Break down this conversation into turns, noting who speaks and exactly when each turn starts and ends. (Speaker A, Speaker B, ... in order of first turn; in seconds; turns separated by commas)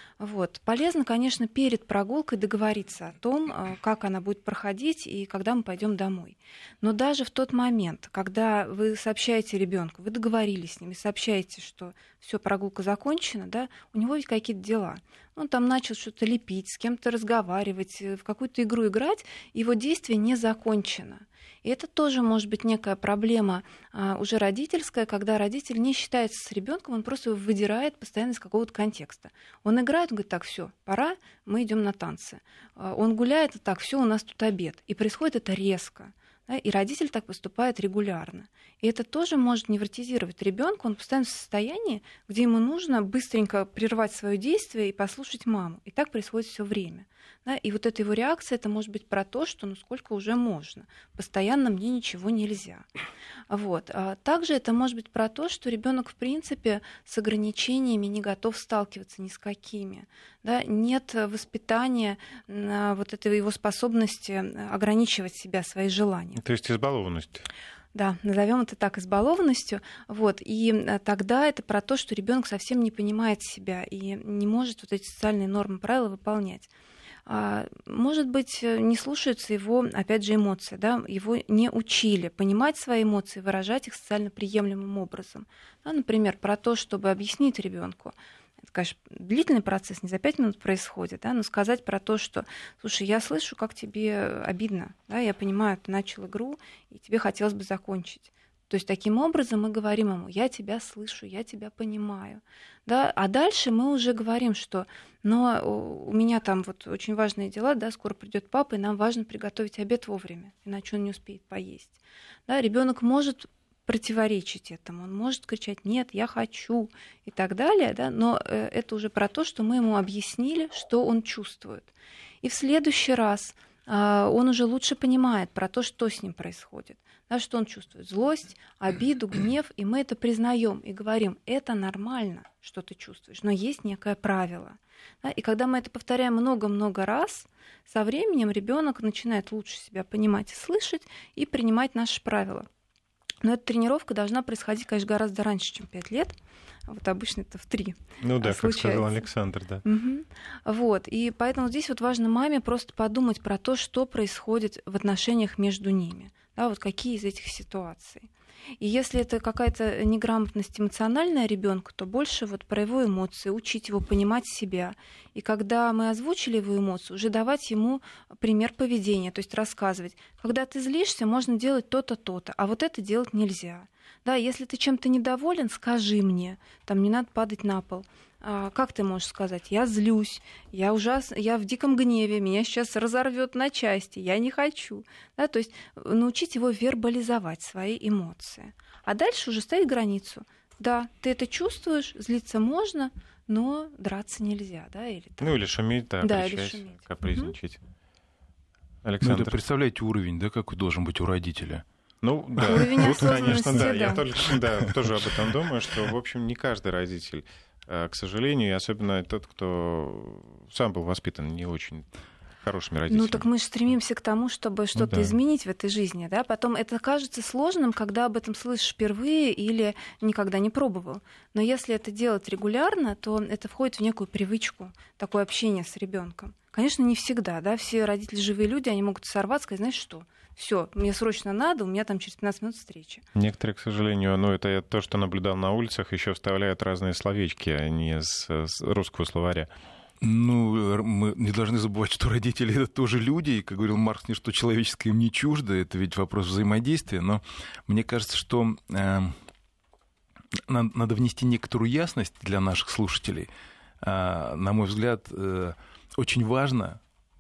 Speaker A: 0.2-52.9, Speaker A: 53.5-66.4, Speaker B: 66.4-67.5, Speaker A: 67.9-76.7, Speaker A: 77.3-88.1, Speaker A: 88.7-121.9, Speaker A: 122.4-142.7, Speaker A: 143.4-146.4, Speaker A: 146.9-149.3, Speaker B: 148.2-149.8, Speaker A: 149.8-195.5, Speaker B: 195.4-197.8, Speaker A: 196.2-197.5, Speaker B: 199.0-199.6, Speaker C: 199.2-201.8, Speaker B: 202.2-212.1, Speaker A: 202.7-204.2, Speaker C: 202.7-205.0, Speaker B: 212.6-213.5, Speaker A: 213.1-233.2, Speaker B: 215.0-215.4, Speaker B: 233.3-239.7, Speaker C: 240.2-249.3, Speaker C: 250.6-253.5, Speaker C: 254.0-257.0